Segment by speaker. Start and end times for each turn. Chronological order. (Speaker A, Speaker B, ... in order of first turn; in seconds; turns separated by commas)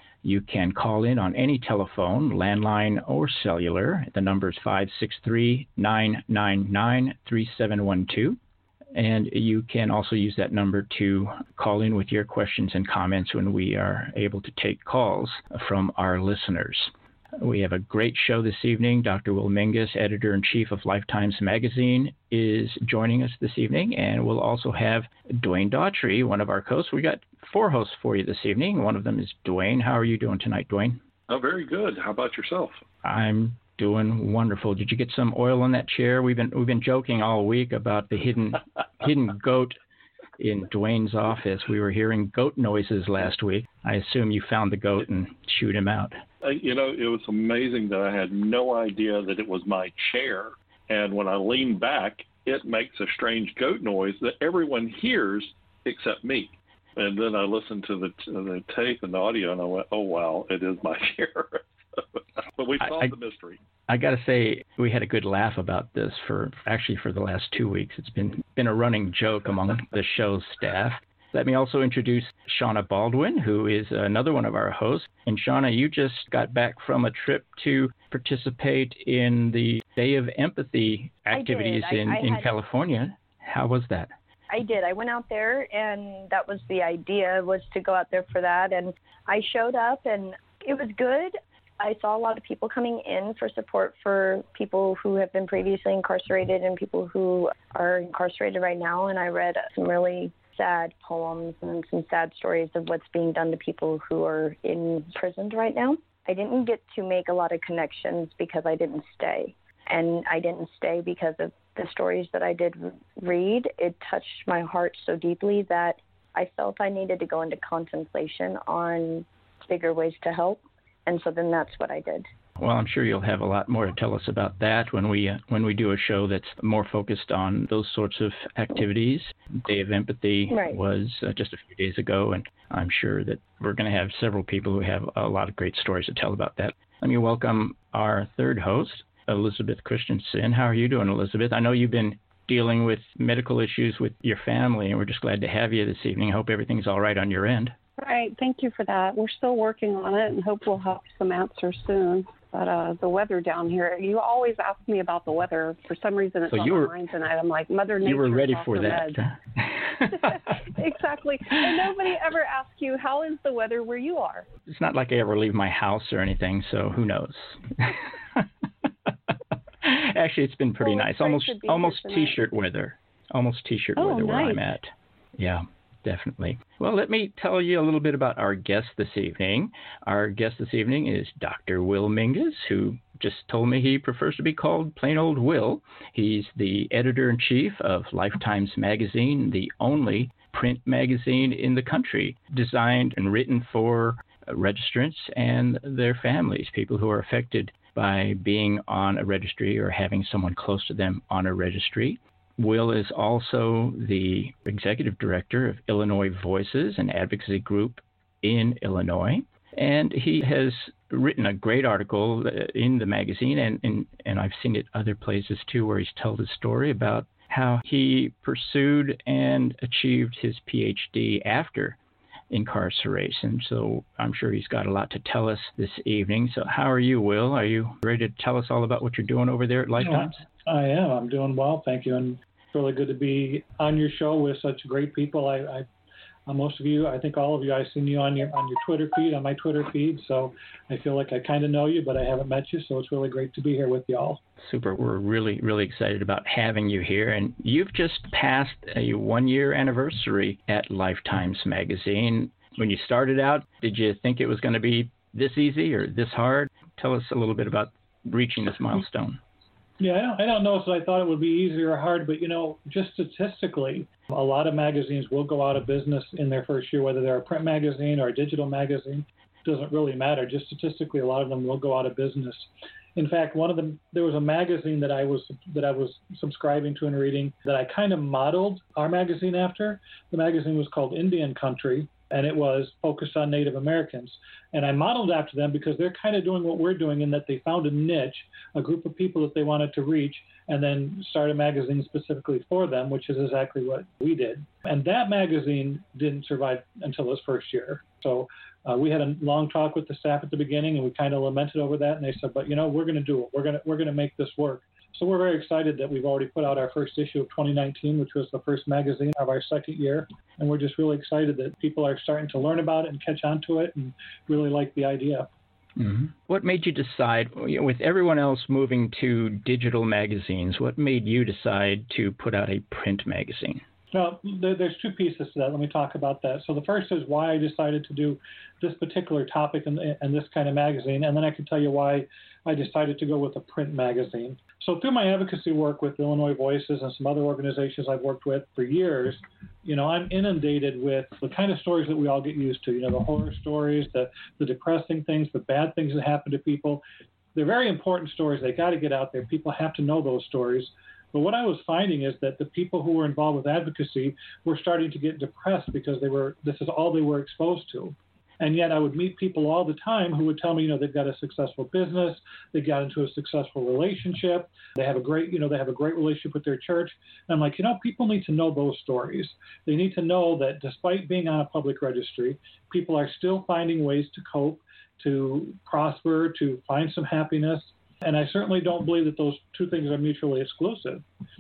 Speaker A: 0.2-8.4, Speaker A: 8.9-31.0, Speaker B: 31.3-32.8, Speaker A: 33.0-39.8, Speaker A: 40.4-46.2, Speaker B: 46.4-63.6, Speaker A: 62.8-63.1, Speaker A: 63.9-84.1, Speaker C: 81.3-82.5, Speaker C: 84.5-122.3, Speaker A: 122.6-147.8, Speaker C: 130.5-130.8, Speaker D: 148.0-159.2, Speaker A: 156.5-156.9, Speaker A: 158.0-160.6, Speaker D: 160.1-164.5, Speaker A: 161.6-161.9, Speaker A: 164.7-222.0, Speaker D: 170.8-172.4, Speaker D: 174.0-174.6, Speaker A: 222.5-230.4, Speaker E: 230.0-235.9, Speaker E: 236.5-244.4, Speaker A: 244.6-259.4, Speaker E: 260.0-315.5, Speaker A: 316.0-323.8, Speaker E: 324.1-347.0, Speaker E: 347.6-381.2